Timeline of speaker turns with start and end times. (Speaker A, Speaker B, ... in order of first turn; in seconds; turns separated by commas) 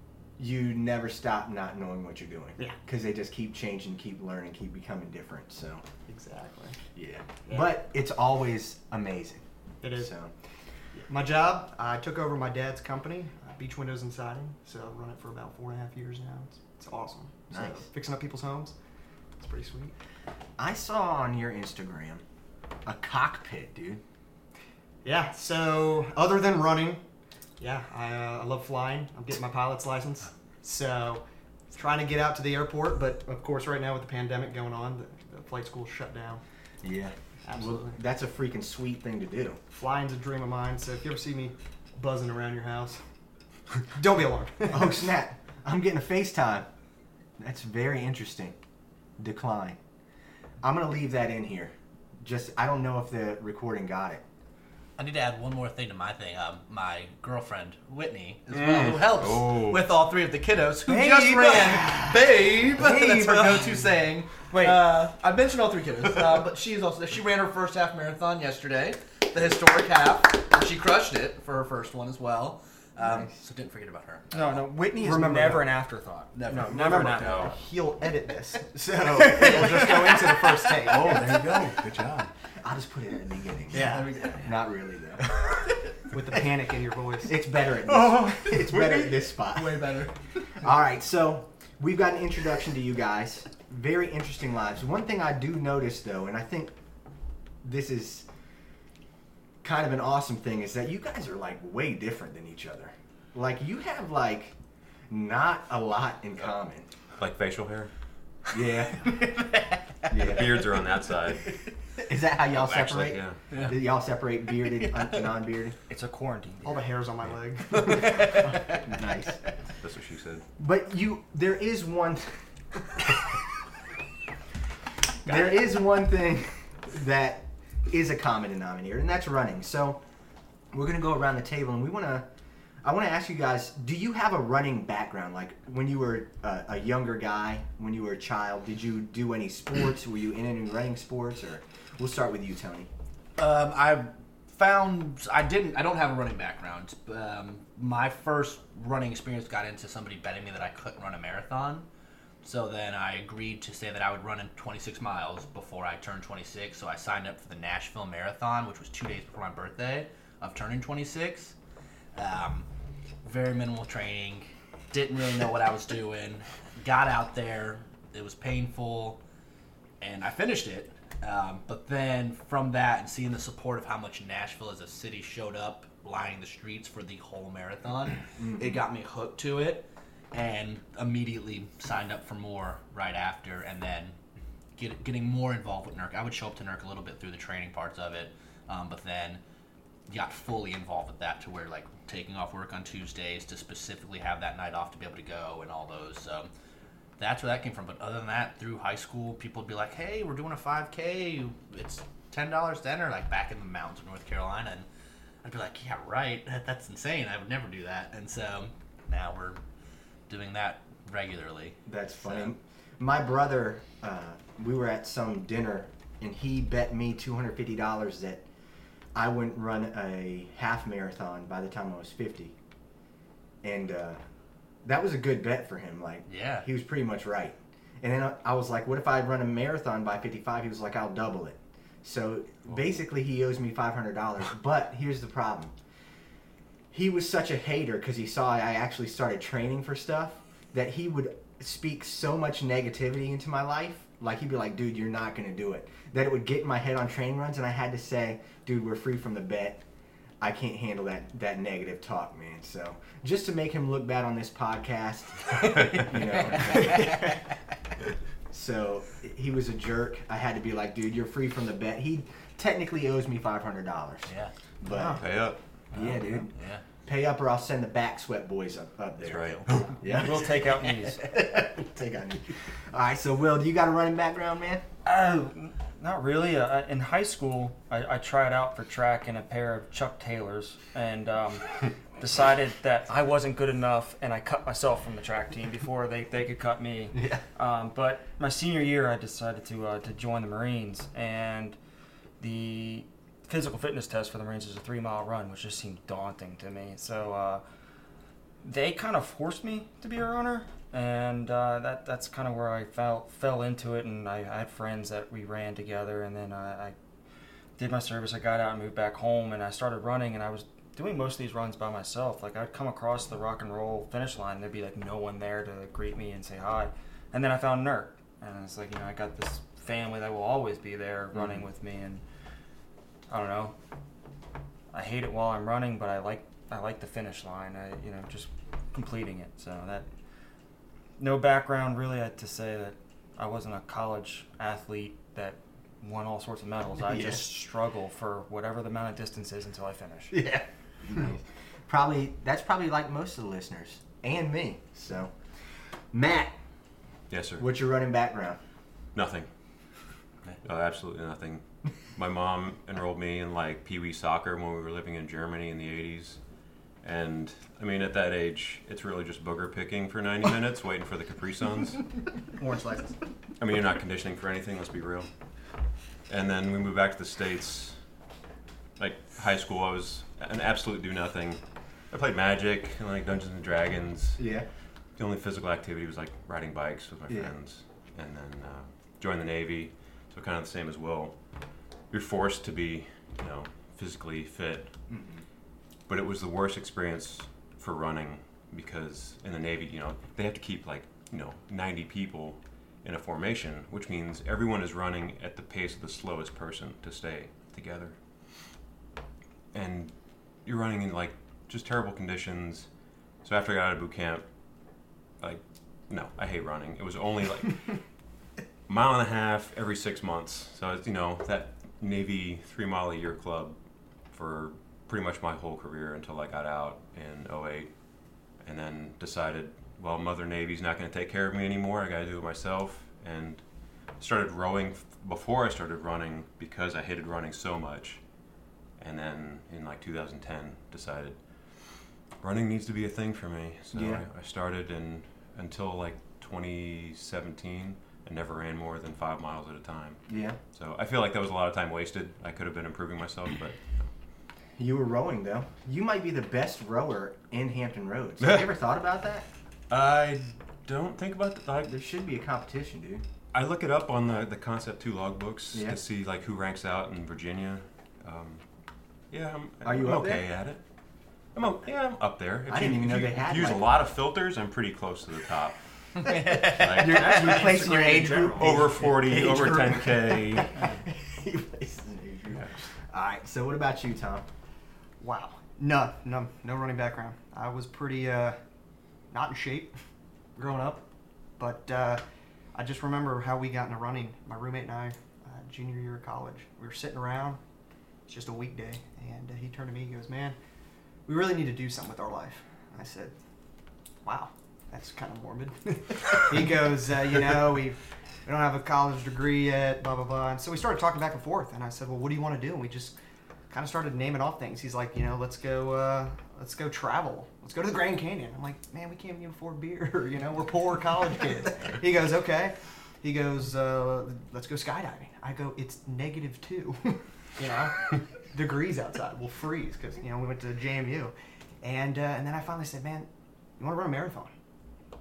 Speaker A: 0.4-5.8, Speaker B: 6.1-6.8, Speaker A: 6.9-10.3, Speaker B: 9.8-10.1, Speaker B: 10.9-18.7, Speaker A: 17.5-17.9, Speaker B: 19.4-19.9, Speaker A: 20.6-22.2, Speaker A: 22.8-24.0, Speaker B: 25.0-27.0, Speaker B: 27.6-36.4, Speaker A: 36.8-39.6, Speaker B: 37.4-38.0, Speaker B: 39.8-43.1, Speaker B: 43.8-45.1, Speaker A: 44.7-46.7, Speaker A: 47.4-48.6, Speaker A: 49.2-49.8, Speaker A: 50.6-54.2, Speaker C: 55.0-74.7, Speaker D: 58.5-59.8, Speaker A: 60.9-62.1, Speaker A: 62.8-63.9, Speaker A: 73.0-73.3, Speaker E: 74.3-77.6, Speaker A: 75.0-75.6, Speaker B: 75.0-75.6, Speaker C: 76.3-77.3, Speaker B: 76.5-81.3, Speaker D: 77.2-77.5, Speaker A: 78.7-81.4, Speaker D: 80.8-82.3, Speaker A: 82.5-85.2, Speaker B: 83.7-84.3, Speaker C: 83.7-84.5, Speaker B: 86.1-87.4, Speaker A: 87.2-96.7, Speaker C: 88.0-90.5, Speaker A: 97.6-98.3, Speaker A: 99.6-104.5, Speaker A: 105.1-106.9, Speaker D: 107.2-107.9, Speaker A: 108.5-109.3, Speaker A: 110.1-110.6, Speaker D: 110.1-111.5, Speaker A: 112.0-115.7, Speaker D: 112.6-113.4, Speaker C: 113.5-113.8, Speaker E: 115.9-118.4, Speaker B: 116.6-119.0, Speaker A: 118.3-119.4, Speaker D: 119.8-120.4, Speaker A: 120.6-123.4, Speaker A: 125.2-130.0, Speaker A: 130.7-132.3, Speaker A: 132.8-142.9, Speaker C: 143.4-151.8, Speaker C: 152.4-161.5, Speaker C: 162.1-162.7, Speaker C: 163.2-169.2, Speaker C: 170.0-184.2, Speaker A: 178.4-178.8, Speaker C: 184.8-189.4, Speaker C: 190.1-196.5, Speaker C: 197.2-204.9, Speaker C: 205.4-209.6, Speaker C: 210.3-212.5, Speaker A: 211.8-218.4, Speaker A: 219.1-222.5, Speaker A: 223.6-224.2, Speaker A: 224.8-235.7, Speaker C: 226.3-226.6, Speaker A: 236.9-249.8, Speaker A: 250.4-257.4, Speaker D: 255.7-256.0, Speaker C: 256.6-257.3, Speaker A: 258.5-265.2, Speaker C: 264.3-264.5, Speaker E: 264.9-265.2, Speaker D: 265.2-266.2, Speaker A: 265.9-274.8, Speaker C: 266.0-266.8, Speaker D: 269.2-270.0, Speaker C: 269.3-269.6, Speaker E: 270.0-271.3, Speaker E: 275.0-291.8, Speaker A: 287.1-287.4, Speaker E: 292.4-297.6, Speaker E: 298.6-306.9, Speaker E: 307.8-322.2, Speaker E: 323.3-323.7, Speaker E: 324.9-330.1, Speaker E: 331.2-340.4, Speaker A: 337.1-337.4, Speaker A: 340.3-346.5, Speaker D: 347.3-347.6, Speaker A: 347.6-348.6, Speaker D: 349.1-349.9, Speaker D: 350.6-362.3, Speaker B: 362.4-363.2, Speaker D: 363.6-365.7, Speaker D: 366.3-368.2, Speaker D: 369.0-384.9, Speaker A: 374.4-374.7, Speaker A: 377.3-377.5, Speaker A: 385.1-385.4, Speaker D: 386.1-398.2, Speaker D: 399.7-402.9, Speaker D: 403.4-408.0, Speaker D: 408.9-413.8, Speaker D: 414.3-428.3, Speaker D: 428.9-444.1, Speaker A: 433.9-434.2, Speaker A: 440.3-440.6, Speaker A: 444.8-449.4, Speaker D: 449.9-451.9, Speaker A: 451.9-453.2, Speaker D: 453.5-470.8, Speaker A: 459.8-460.5, Speaker A: 462.7-463.9, Speaker C: 466.2-467.3, Speaker A: 466.8-474.4, Speaker E: 467.0-469.0, Speaker E: 470.8-471.0, Speaker B: 475.2-478.6, Speaker B: 479.3-479.9, Speaker B: 480.6-481.0, Speaker B: 481.6-482.2, Speaker B: 482.7-487.6, Speaker B: 488.2-490.6, Speaker B: 491.2-493.3, Speaker B: 494.2-503.1, Speaker B: 503.7-524.5